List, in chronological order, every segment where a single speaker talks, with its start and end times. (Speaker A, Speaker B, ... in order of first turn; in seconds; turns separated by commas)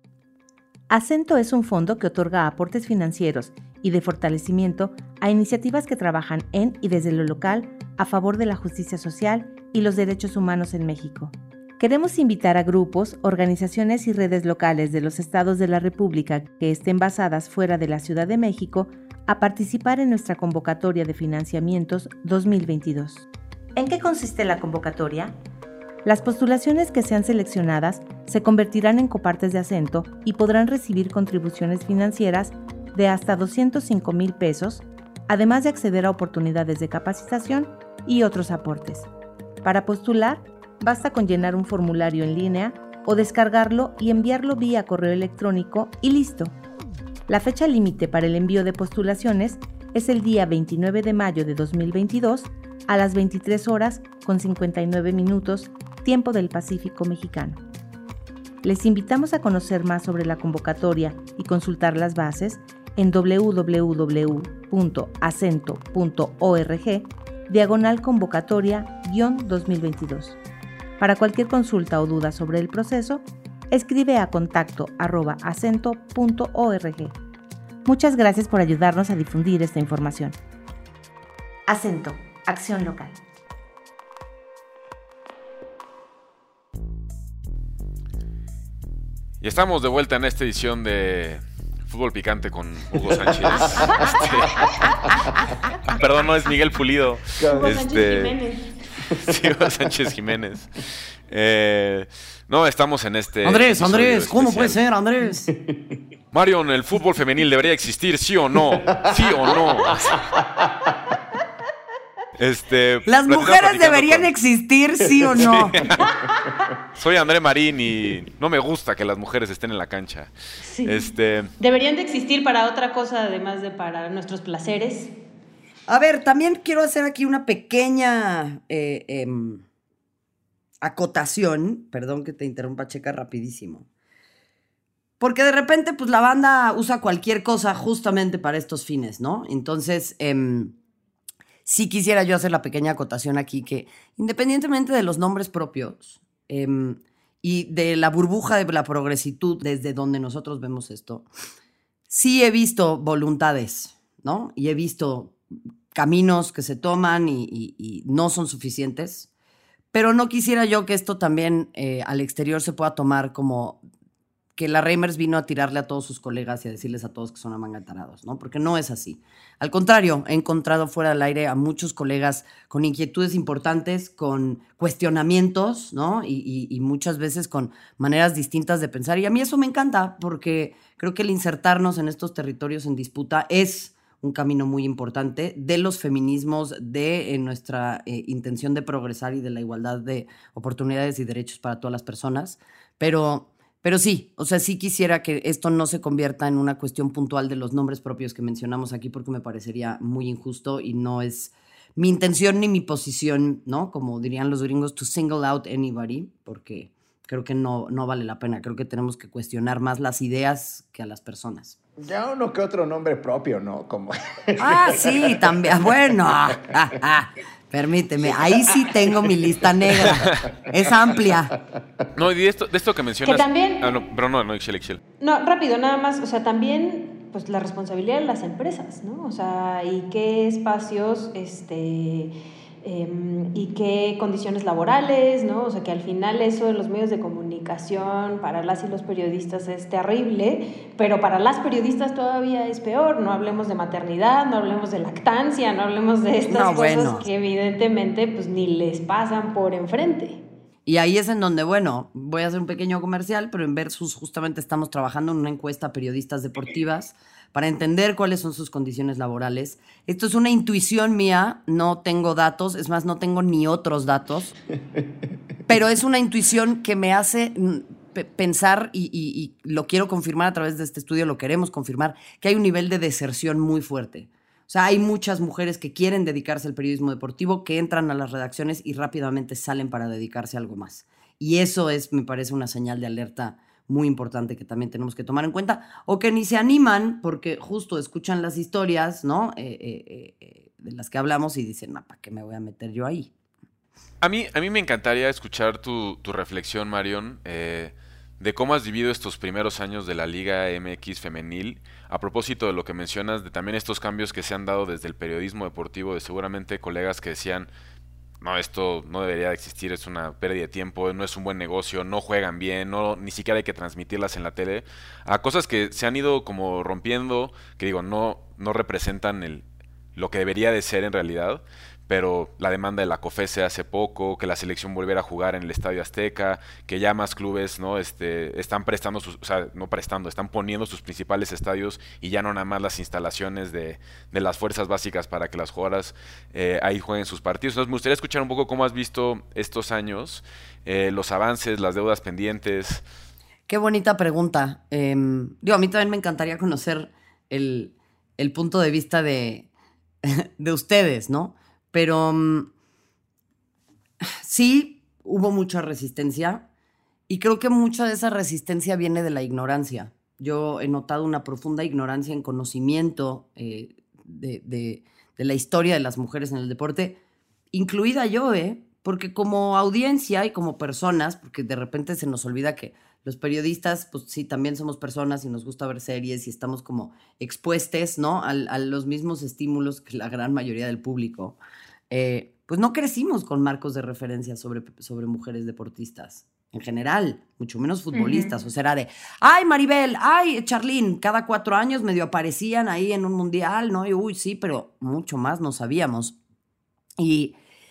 Speaker A: 0.9-25.3, Speaker A: 26.0-39.1, Speaker A: 39.6-46.5, Speaker A: 47.3-57.6, Speaker A: 58.6-70.4, Speaker A: 71.0-77.1, Speaker A: 77.8-80.3, Speaker A: 81.7-83.2, Speaker B: 89.4-98.4, Speaker C: 93.1-94.8, Speaker C: 97.4-97.8, Speaker D: 97.5-98.7, Speaker B: 99.0-104.8, Speaker C: 99.1-99.8, Speaker E: 103.4-105.5, Speaker C: 105.5-106.0, Speaker B: 106.3-110.3, Speaker C: 108.9-110.9, Speaker B: 112.4-114.3, Speaker E: 113.1-115.8, Speaker C: 115.2-115.5, Speaker B: 115.4-116.2, Speaker B: 116.9-120.3, Speaker D: 120.6-121.0, Speaker B: 120.8-121.5, Speaker D: 121.6-125.1, Speaker E: 125.9-129.6, Speaker E: 130.8-133.9, Speaker E: 135.2-140.7, Speaker E: 141.6-151.3, Speaker E: 152.1-155.4, Speaker E: 155.9-159.3, Speaker E: 159.9-163.8, Speaker E: 164.6-211.8, Speaker C: 212.0-215.8, Speaker E: 214.6-221.5, Speaker C: 218.2-219.5, Speaker B: 220.2-220.5, Speaker C: 221.8-222.0, Speaker B: 222.1-225.0, Speaker D: 223.2-223.9, Speaker D: 225.2-232.3, Speaker D: 232.8-250.4, Speaker E: 246.5-247.3, Speaker E: 250.8-264.6, Speaker E: 265.7-293.3, Speaker B: 294.2-307.7, Speaker B: 308.4-319.6, Speaker B: 320.1-343.0, Speaker E: 343.7-349.7, Speaker E: 350.2-352.7, Speaker E: 354.2-356.6, Speaker E: 357.3-367.2, Speaker E: 367.7-381.6, Speaker E: 382.1-396.4, Speaker D: 388.1-388.5, Speaker E: 397.2-397.5